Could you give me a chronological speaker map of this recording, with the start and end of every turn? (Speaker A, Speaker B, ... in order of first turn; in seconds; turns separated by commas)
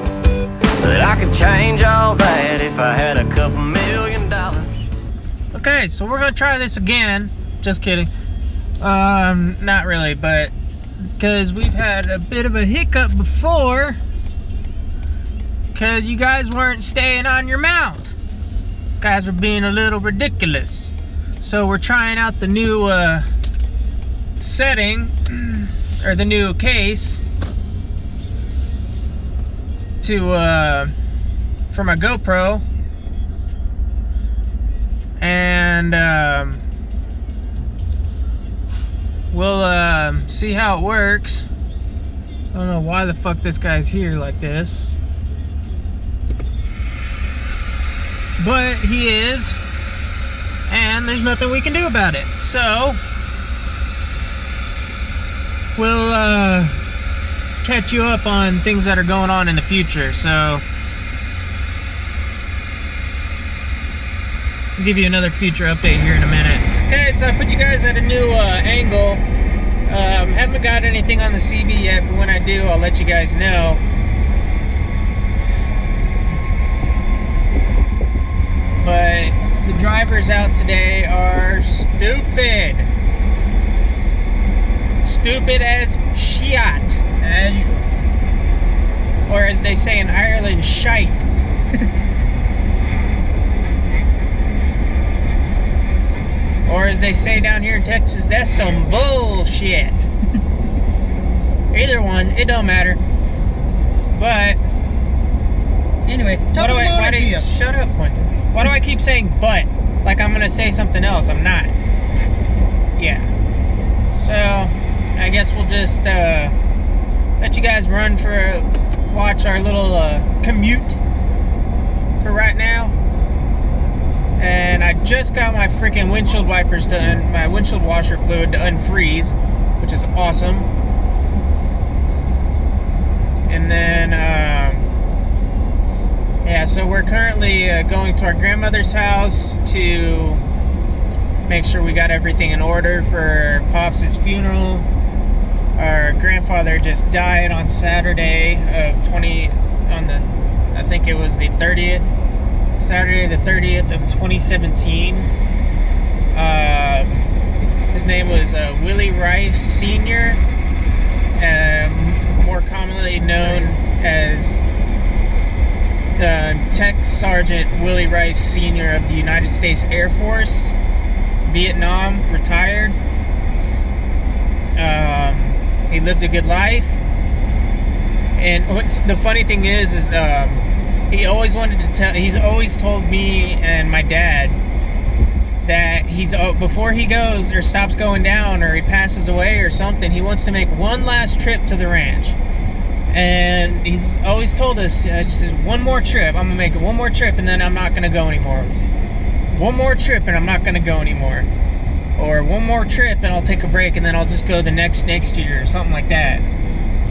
Speaker A: 0.8-4.8, Speaker B: 5.5-8.1, Speaker B: 8.8-10.5, Speaker B: 11.2-14.0, Speaker B: 15.7-18.1, Speaker B: 19.0-23.3, Speaker B: 24.4-27.2, Speaker B: 30.0-30.9, Speaker B: 31.7-32.6, Speaker B: 35.2-36.6, Speaker B: 39.3-41.5, Speaker B: 42.5-45.0, Speaker B: 48.4-49.6, Speaker B: 50.7-53.0, Speaker B: 55.8-56.8, Speaker B: 57.6-60.6, Speaker B: 64.8-69.2, Speaker B: 69.9-73.8, Speaker B: 78.8-82.9, Speaker B: 85.0-87.0, Speaker C: 87.2-88.0, Speaker B: 89.3-91.2, Speaker B: 96.7-100.0, Speaker B: 101.7-103.0, Speaker B: 104.1-104.6, Speaker C: 106.0-107.5, Speaker B: 106.5-111.7, Speaker B: 113.0-113.3, Speaker B: 114.2-116.5, Speaker B: 117.4-121.0, Speaker B: 122.2-123.0, Speaker B: 124.4-130.7, Speaker B: 133.5-134.9, Speaker B: 136.4-140.4, Speaker B: 141.4-144.9, Speaker B: 145.8-152.1, Speaker B: 152.8-155.3, Speaker B: 156.3-157.2, Speaker B: 157.9-160.4, Speaker B: 161.3-164.6, Speaker C: 163.3-163.8, Speaker B: 166.2-170.8, Speaker B: 171.4-173.0, Speaker B: 174.8-177.0, Speaker B: 178.3-184.6, Speaker B: 185.6-192.4, Speaker B: 193.1-198.8, Speaker B: 199.5-201.5, Speaker B: 202.2-206.4